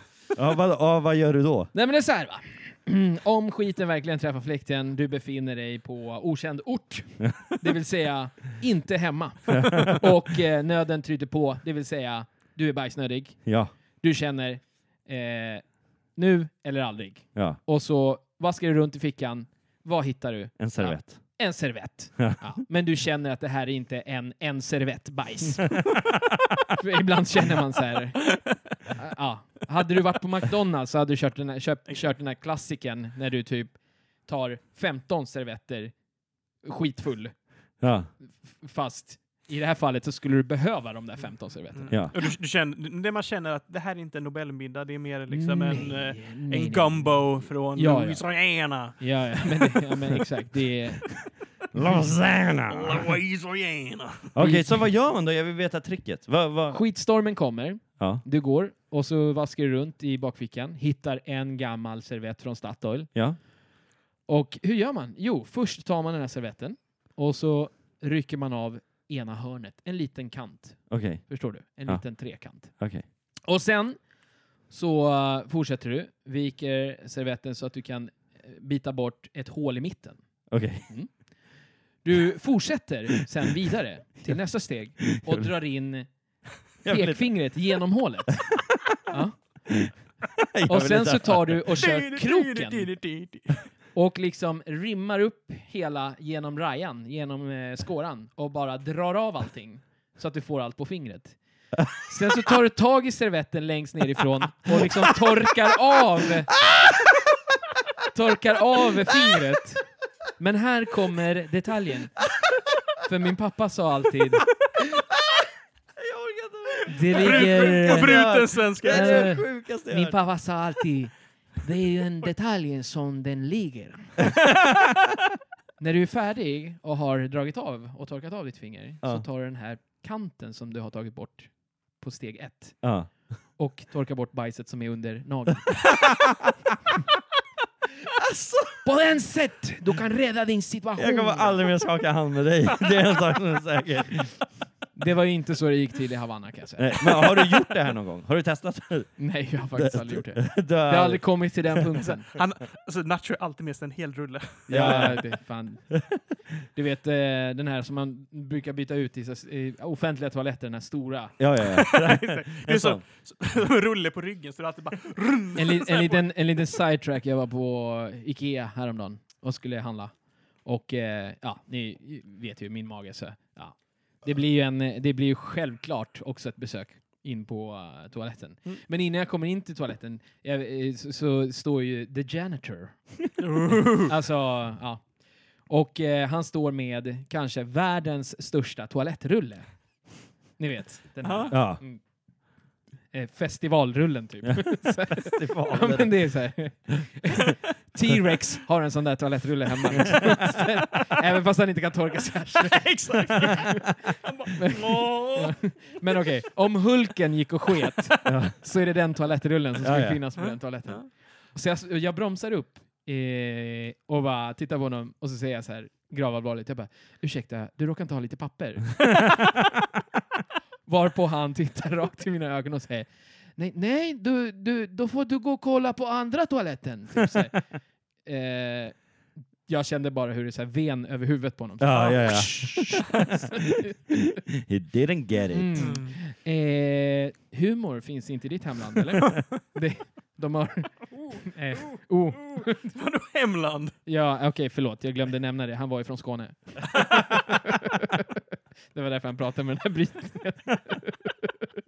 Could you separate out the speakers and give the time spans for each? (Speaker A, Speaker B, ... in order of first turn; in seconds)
Speaker A: 0.3-1.7, 9.5-9.9, 13.4-13.7, 20.6-21.2, 37.8-38.1, 51.7-53.2, 54.3-56.8, 70.9-71.3, 72.7-73.0, 80.5-80.9, 85.0-85.5, 86.8-87.4, 89.8-91.6, 106.7-107.1, 116.0-120.2, 124.4-124.8, 132.8-133.1, 135.9-136.5, 140.9-144.5, 146.8-151.9, 154.7-155.2, 161.4-163.0, 191.5-191.8, 194.5-196.2, 208.2-208.6, 209.8-210.2, 231.8-236.0
Speaker B: 1.7-13.4, 14.0-25.8, 26.7-36.0, 36.6-37.4, 38.3-42.0, 45.3-48.2, 49.0-51.1, 54.4-54.7, 56.7-63.1, 64.3-72.7, 73.4-74.0, 74.7-80.2, 82.0-86.1, 86.8-88.5, 89.1-89.4, 90.7-92.9, 93.9-101.4, 101.9-106.6, 108.1-112.2, 113.0-114.4, 116.9-124.3, 125.8-132.8, 133.6-135.8, 138.6-141.8, 144.9-147.4, 149.2-152.3, 154.7-155.8, 156.7-161.4, 165.6-185.1, 185.7-189.7, 190.6-192.0, 193.1-203.9, 204.5-219.3, 220.8-227.6, 228.2-229.0, 229.7-233.9, 235.5-242.9, 244.1-248.3, 248.9-251.6
Speaker C: 41.7-49.9, 52.7-54.3, 91.8-93.6, 117.1-119.3, 152.3-155.1, 161.6-166.3, 183.4-184.1, 191.2-191.5, 199.9-200.3, 202.6-206.2, 235.8-236.1, 242.4-243.9